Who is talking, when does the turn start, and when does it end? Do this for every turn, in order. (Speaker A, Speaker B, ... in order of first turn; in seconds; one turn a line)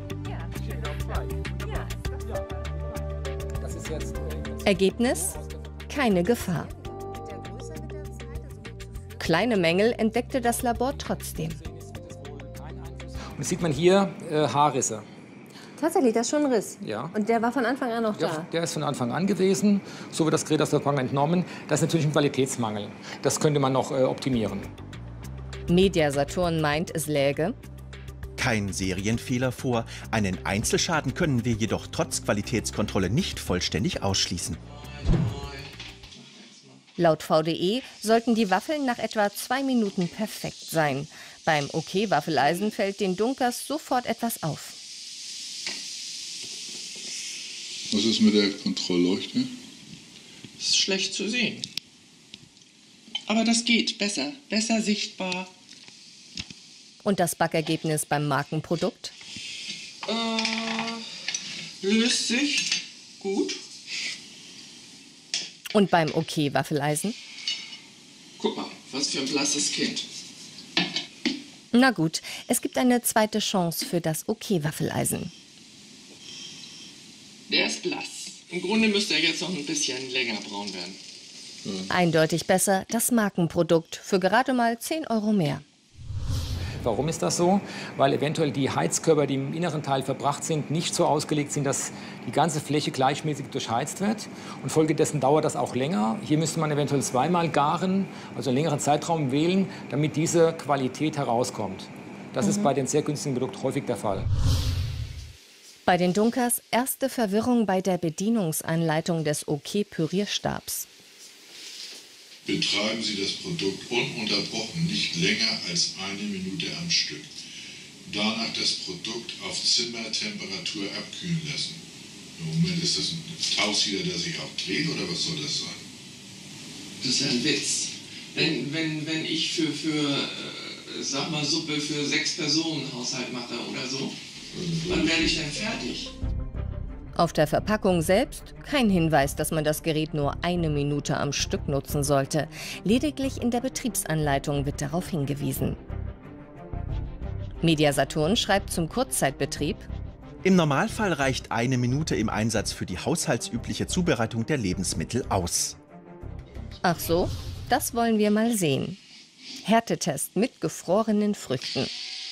Speaker A: 3.6-5.8
Speaker B: 4.6-5.3
Speaker B: 5.9-6.7
Speaker B: 9.2-11.6
Speaker A: 11.4-15.1
Speaker C: 15.8-18.5
Speaker A: 16.8-17.1
Speaker A: 18.1-24.7
Speaker B: 25.7-27.6
Speaker D: 28.4-34.6
Speaker E: 34.7-36.8
Speaker B: 37.0-44.8
Speaker F: 47.9-49.5
Speaker E: 50.6-51.6
Speaker E: 53.3-55.5
Speaker B: 57.0-59.1
Speaker E: 60.1-61.0
Speaker E: 61.8-62.7
Speaker E: 63.2-63.6
Speaker B: 65.7-67.2
Speaker E: 68.4-70.0
Speaker B: 71.7-75.3
Speaker E: 77.5-80.9
Speaker B: 81.9-85.6
Speaker A: 86.8-104.3
Speaker B: 105.8-110.8
Speaker F: 112.4-117.3
Speaker F: 118.0-121.8
Speaker F: 122.3-125.8
Speaker E: 127.0-134.1
Speaker F: 134.5-135.5
Speaker E: 134.9-136.1
Speaker B: 137.2-145.8
Speaker B: 147.6-149.9
Speaker D: 150.4-155.8
Speaker B: 156.8-159.0
Speaker B: 159.6-161.9